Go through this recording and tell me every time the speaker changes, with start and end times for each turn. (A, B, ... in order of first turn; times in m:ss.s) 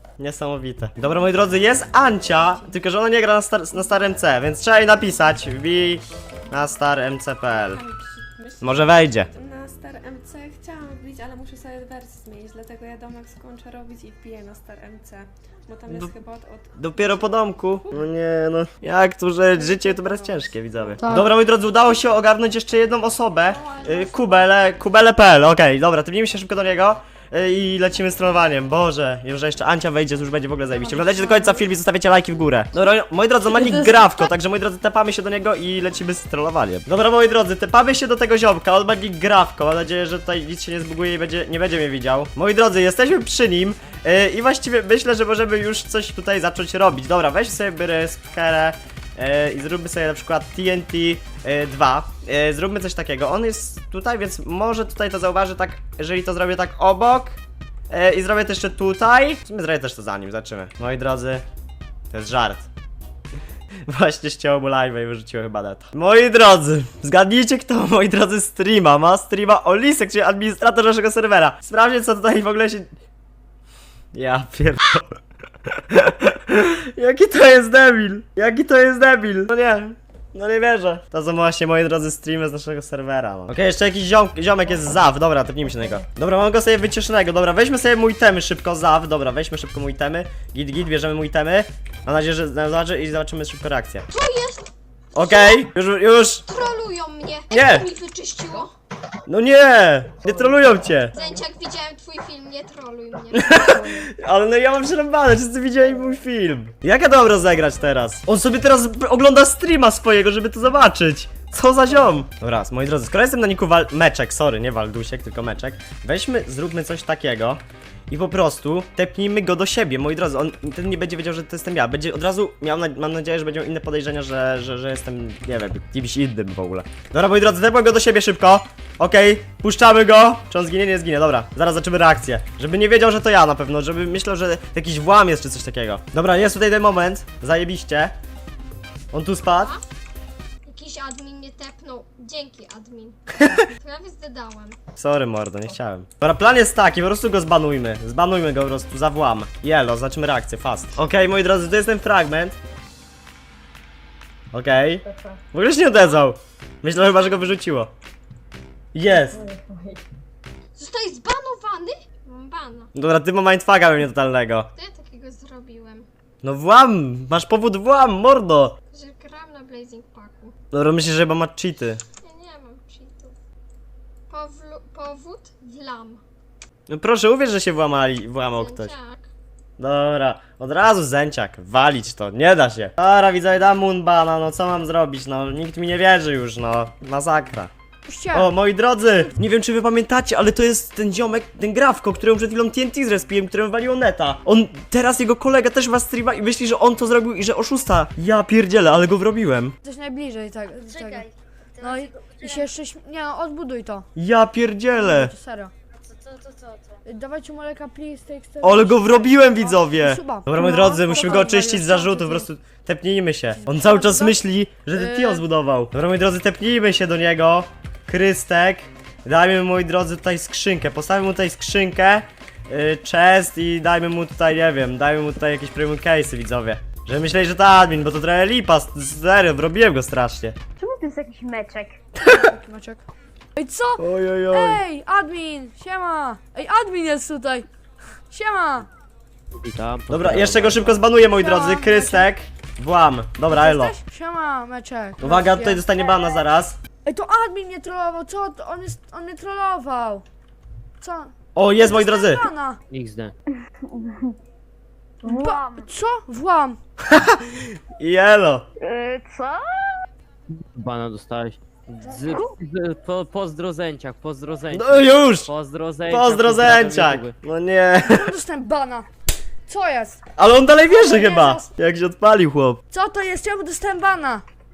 0:00.2-0:07.8 A
0:01.0-0:02.8 B
0:07.5-0:18.0 B
0:08.6-0:09.3 A
0:15.9-0:16.1 A
0:16.8-0:57.4 A
0:19.5-0:21.0 B
0:21.0-0:21.3 C
0:23.5-0:24.5 B
0:31.1-0:31.4 C
0:57.9-1:01.4 A
1:02.1-1:02.7 A
1:03.9-1:12.9 A
1:14.1-1:15.2 A
1:15.9-1:34.0 A
1:34.1-1:35.7 D
1:35.2-1:36.4 A
1:36.5-1:38.7 D
1:37.5-1:37.9 A
1:39.3-1:41.2 A
1:41.1-1:44.0 D
1:43.3-2:18.1 A
2:19.1-2:19.7 A
2:19.5-2:19.8 D
2:20.7-2:23.2 D
2:23.8-2:24.8 D
2:25.0-2:32.6 A
2:34.5-2:37.9 A
2:38.9-2:39.5 A
2:39.5-2:40.0 E
2:40.8-2:42.9 D
2:43.0-2:44.7 A
2:44.8-2:46.1 D
2:46.4-2:48.8 A
2:48.9-2:50.5 D
2:50.7-2:52.0 A
2:52.2-2:53.4 D
2:54.3-2:56.2 D
2:56.9-2:58.9 A
2:58.6-2:59.3 D
2:59.8-3:07.7 A
3:08.1-3:08.5 C
3:08.3-3:19.8 A
3:19.8-3:24.1 C
3:24.2-3:25.3 A
3:24.9-3:25.7 C
3:27.0-3:32.5 C
3:28.6-3:50.6 A
3:33.6-3:34.4 C
3:34.9-3:35.4 C
3:50.8-3:52.0 E
3:52.2-3:53.0 C
3:53.6-3:57.7 C
3:54.0-3:54.8 A
3:58.3-3:58.9 C
3:59.6-4:01.0 F
4:00.1-4:03.9 A
4:01.3-4:02.3 C
4:03.5-4:06.0 C
4:05.2-4:06.8 A
4:06.1-4:06.4 E
4:07.0-4:10.2 C
4:11.0-4:12.8 C
4:11.6-4:12.5 A
4:12.9-4:13.3 F
4:13.8-4:14.4 E
4:15.2-4:15.9 E
4:15.3-4:16.8 C
4:17.1-4:18.6 A
4:18.8-4:20.0 E
4:20.6-4:27.3 F
4:22.0-4:22.4 C
4:22.3-4:22.6 E
4:24.7-4:25.5 A
4:26.1-4:28.3 A
4:28.0-4:29.1 C
4:29.7-4:31.7 C
4:30.4-4:32.8 A
4:32.9-4:34.4 C